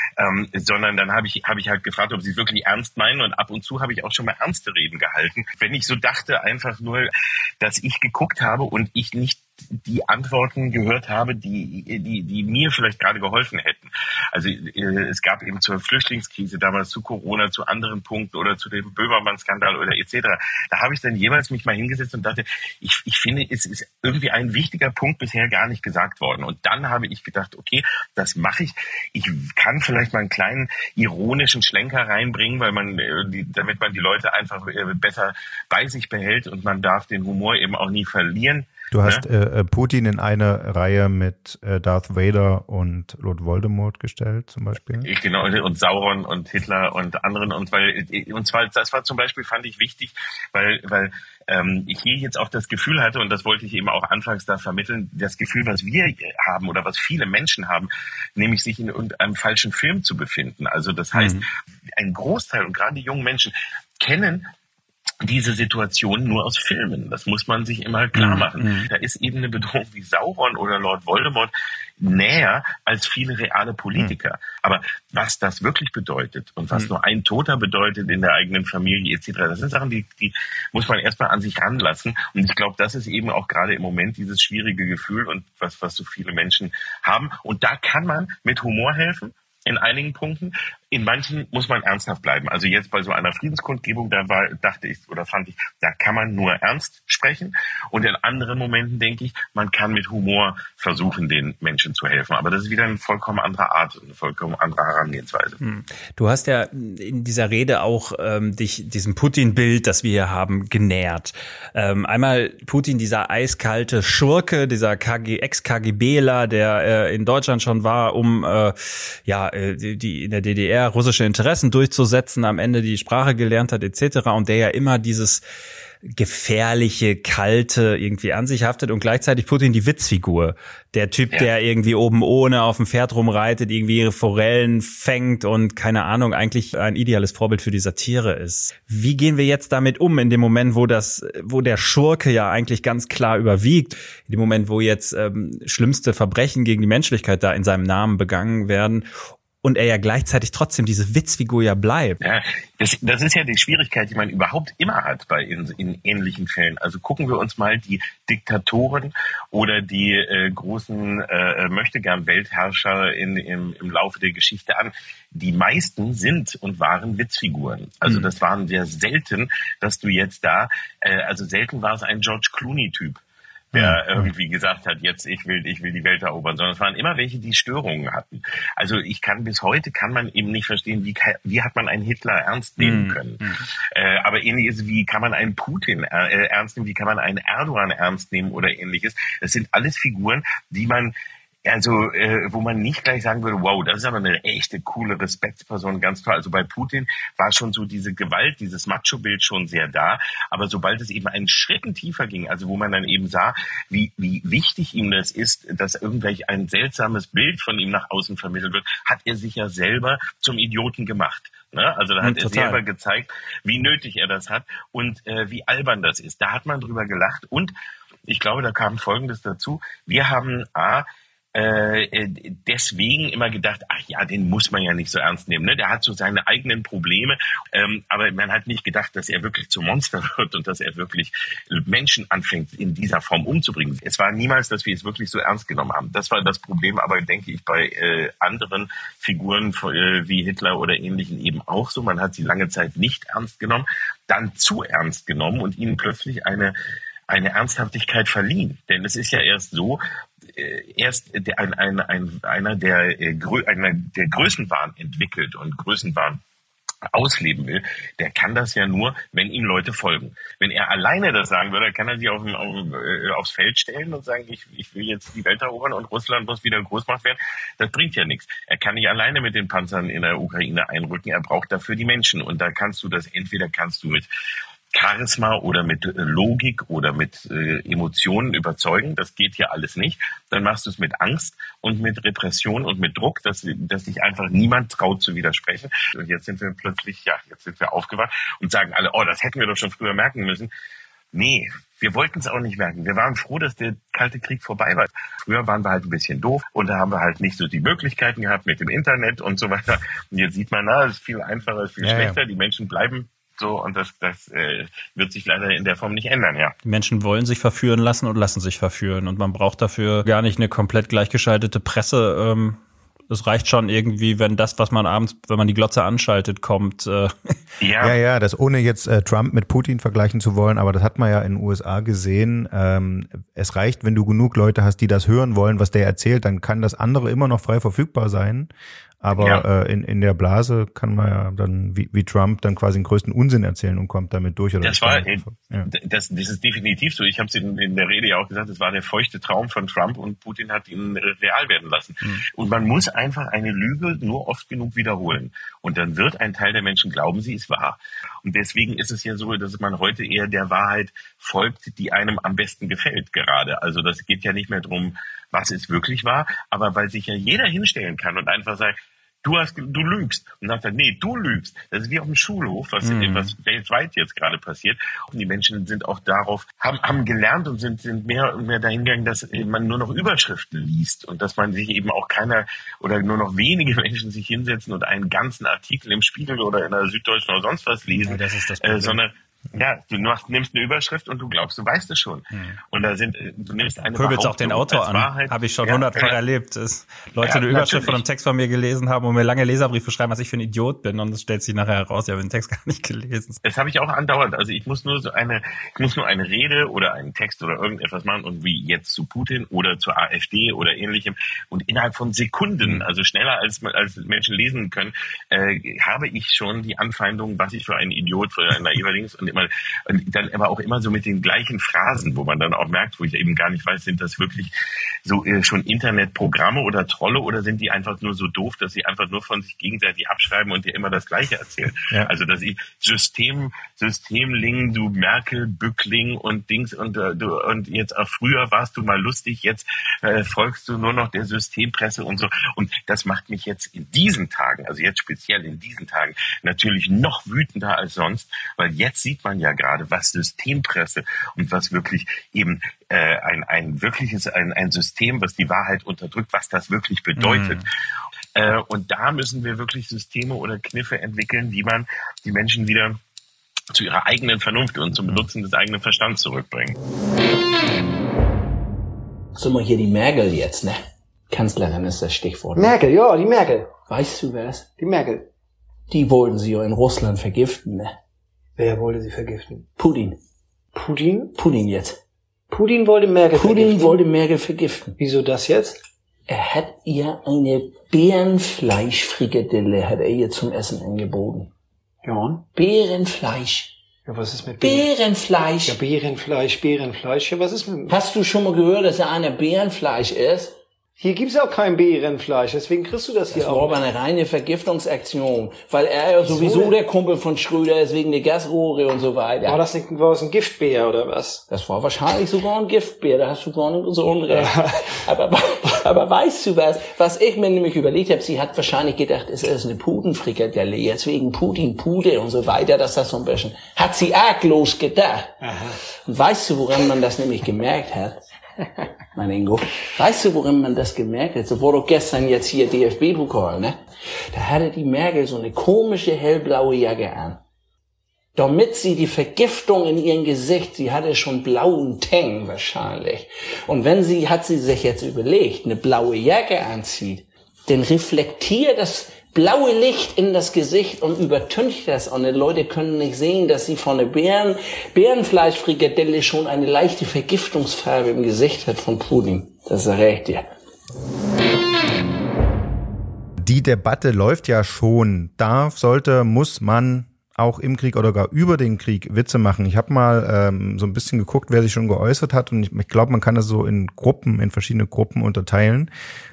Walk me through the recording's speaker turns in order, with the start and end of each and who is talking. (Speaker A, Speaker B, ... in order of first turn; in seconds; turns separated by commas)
Speaker A: 0.2-7.1, Speaker A: 7.6-39.2, Speaker B: 38.9-45.1, Speaker A: 45.0-61.4, Speaker C: 61.1-61.4, Speaker A: 62.0-64.5, Speaker A: 65.2-105.6, Speaker C: 68.2-68.9, Speaker C: 105.6-118.7, Speaker C: 119.2-125.4, Speaker C: 126.1-149.1, Speaker C: 149.6-152.2, Speaker A: 152.2-173.2, Speaker A: 173.7-191.1, Speaker C: 182.8-183.6, Speaker A: 191.7-217.7, Speaker C: 212.2-212.8, Speaker A: 218.3-246.7, Speaker A: 247.3-256.4, Speaker A: 257.1-274.3, Speaker A: 274.9-290.7, Speaker A: 291.3-306.7, Speaker B: 302.0-302.4, Speaker C: 306.8-317.5, Speaker A: 317.8-318.2, Speaker B: 318.0-328.7, Speaker B: 329.2-335.9, Speaker A: 329.4-329.6, Speaker A: 334.8-386.4, Speaker C: 363.0-363.5, Speaker C: 378.2-379.2, Speaker C: 382.5-382.8, Speaker C: 384.1-393.6, Speaker A: 387.4-388.2, Speaker A: 393.6-414.7, Speaker A: 415.2-447.8, Speaker C: 447.4-447.8, Speaker A: 448.6-453.2, Speaker A: 453.9-457.0, Speaker D: 459.6-462.9, Speaker E: 462.7-463.9, Speaker D: 464.1-464.9, Speaker E: 465.0-465.5, Speaker D: 466.1-468.1, Speaker E: 468.8-469.9, Speaker D: 470.0-470.4, Speaker E: 470.9-471.5, Speaker D: 471.6-472.2, Speaker E: 472.7-474.2, Speaker D: 473.5-475.1, Speaker E: 475.2-476.0, Speaker D: 476.5-481.7, Speaker E: 482.2-482.6, Speaker D: 482.7-483.9, Speaker E: 484.2-485.1, Speaker D: 484.8-486.0, Speaker E: 485.8-488.2, Speaker D: 488.1-490.7, Speaker E: 491.2-494.1, Speaker D: 493.5-499.8, Speaker E: 496.4-497.0, Speaker E: 499.6-501.6, Speaker D: 501.7-515.5, Speaker E: 504.5-504.9, Speaker E: 515.6-515.9, Speaker D: 516.2-518.4, Speaker D: 519.3-524.0, Speaker D: 524.5-527.6, Speaker D: 528.5-550.6, Speaker B: 553.6-566.1